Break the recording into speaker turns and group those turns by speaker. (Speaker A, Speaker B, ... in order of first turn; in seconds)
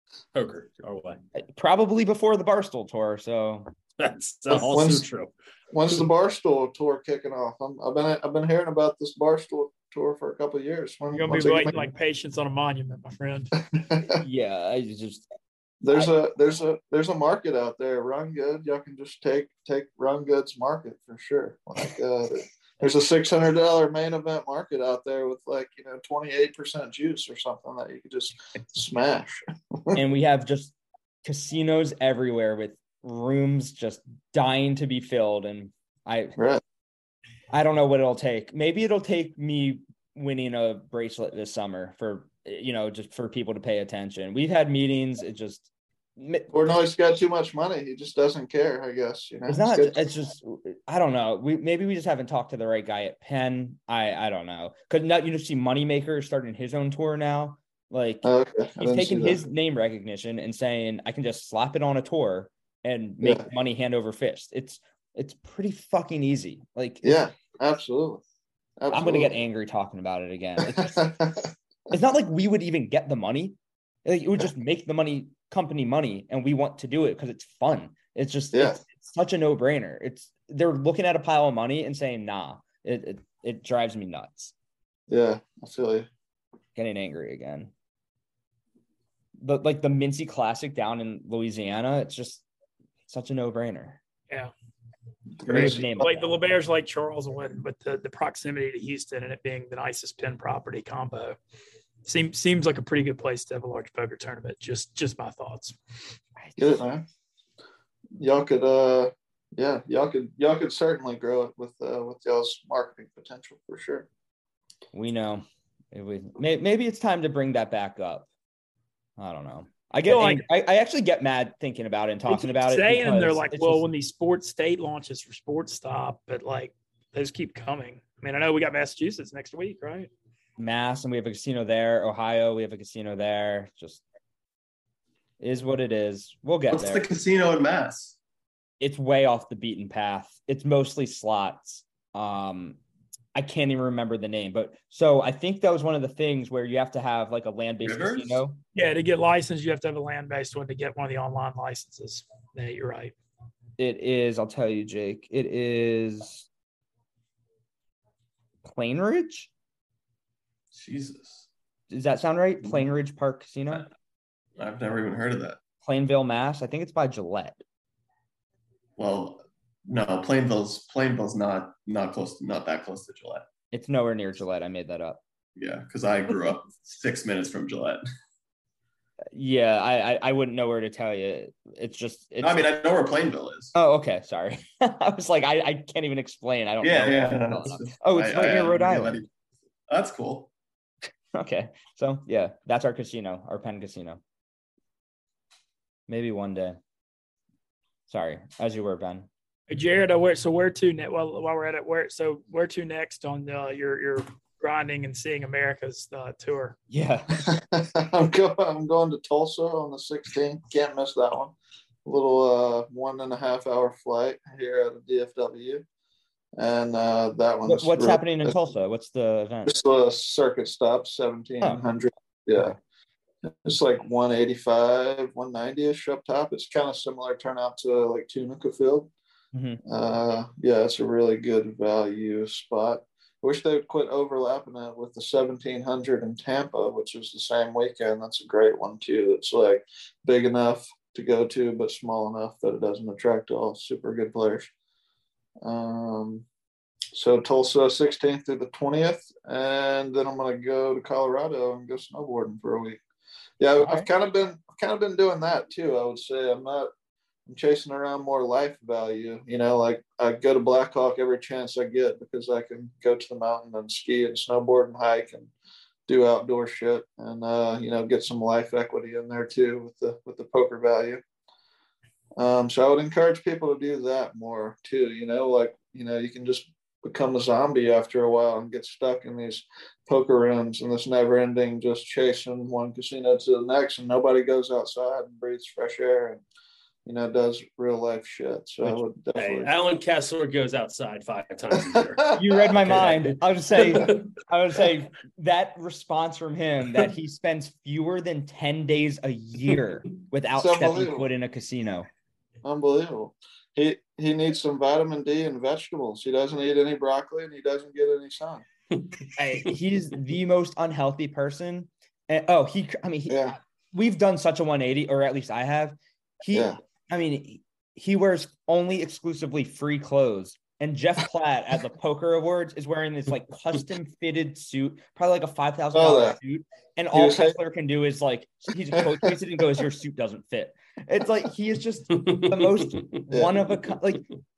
Speaker A: 0.3-1.2, 4.0-5.3, 289.4-292.2, 292.8-294.2, 332.1-333.1
Speaker B: 1.4-3.7, 14.2-15.3, 29.9-36.4, 37.5-46.5, 49.5-67.2, 68.9-71.1, 71.9-84.5, 86.8-87.7, 89.4-92.4, 93.1-94.0, 95.5-96.4, 106.4-106.8, 114.9-118.3, 119.2-123.8, 130.6-134.0, 135.4-137.0, 138.8-142.8, 143.3-148.6, 153.8-156.5, 158.6-159.5, 161.9-163.8, 165.8-167.6, 173.7-175.2, 179.3-182.7, 183.7-189.2, 191.3-194.2, 196.1-196.8, 198.1-199.3, 206.9-207.4, 217.7-219.8, 229.5-229.8, 253.8-254.1, 292.4-302.1, 309.4-334.3
Speaker C: 4.5-5.0, 5.7-11.9, 13.7-14.2, 15.8-30.0, 46.5-50.0, 58.2-59.4, 67.0-68.2, 68.8-69.3, 70.7-71.5, 78.5-78.8, 85.1-86.1, 95.4-96.0, 106.6-107.0, 108.2-114.1, 207.3-211.5, 212.1-215.8, 216.6-218.5, 219.7-222.8, 223.6-229.1, 229.9-244.7, 245.6-246.4, 247.1-253.0, 253.6-256.9, 257.5-265.5, 266.1-271.2, 272.4-286.4, 287.1-289.7, 291.9-292.5, 300.6-301.2, 302.6-308.6, 313.3-313.6, 316.5-316.8, 325.9-326.3, 327.1-327.5, 328.9-329.3, 333.3-333.6
Speaker D: 11.1-13.5, 96.0-101.4, 102.0-105.8, 120.0-120.4, 122.3-130.1, 148.7-153.1, 199.7-206.8
Speaker E: 136.7-138.2, 147.8-148.4, 160.7-161.4, 164.6-165.6, 169.0-173.4, 175.6-178.0, 182.4-183.7, 186.8-189.3, 189.9-190.5